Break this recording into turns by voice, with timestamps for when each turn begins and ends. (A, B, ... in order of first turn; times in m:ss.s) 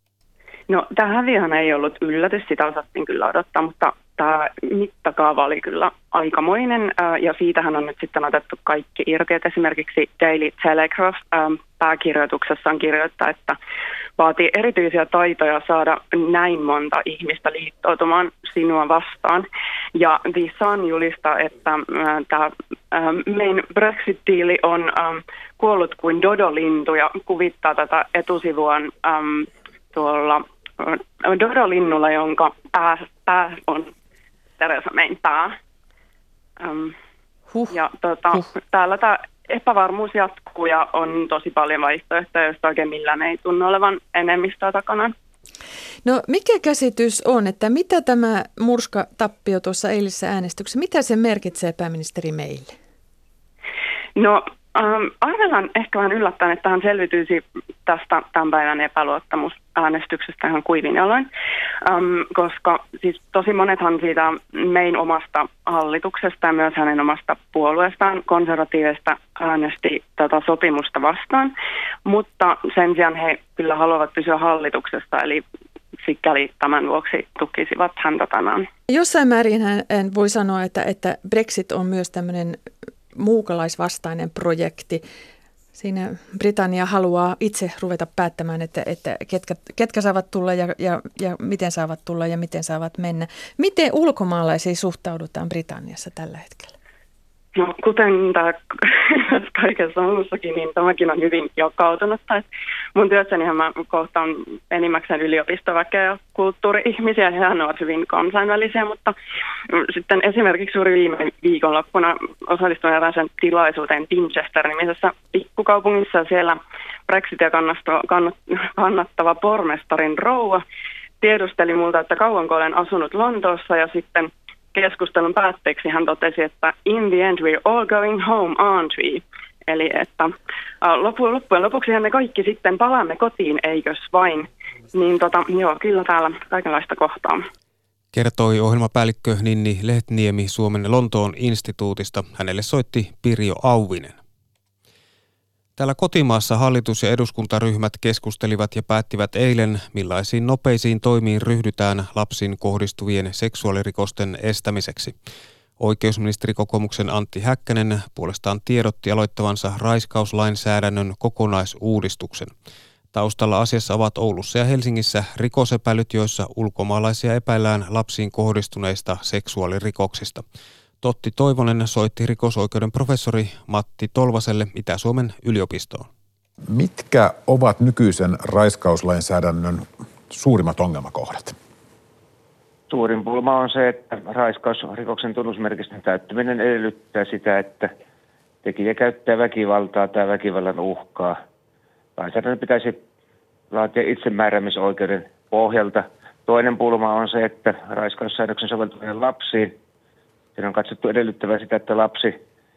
0:00.7-0:13.6 A
0:14.2-0:33.9 A
0:34.6-0:35.6 A
0:36.6-0:36.9 A
0:37.7-0:45.1 A
0:46.0-0:52.8 B
0:54.2-1:01.3 A
1:01.8-1:11.5 A
1:12.1-1:15.4 A
1:16.0-1:18.7 A
1:18.9-1:22.6 B
1:23.1-1:25.0 B
1:25.8-1:36.7 B
1:37.6-1:42.4 A
1:43.0-1:49.2 A
1:49.7-2:00.6 A
2:01.2-2:17.4 A
2:18.1-2:24.2 C
2:25.8-2:35.1 C
2:35.8-2:42.5 C
2:43.1-2:50.4 C
2:51.0-2:56.1 C
2:56.7-3:01.6 D
3:02.9-3:07.9 E
3:08.6-3:11.4 E
3:12.2-3:13.0 E
3:13.7-3:19.8 E
3:20.6-3:22.4 E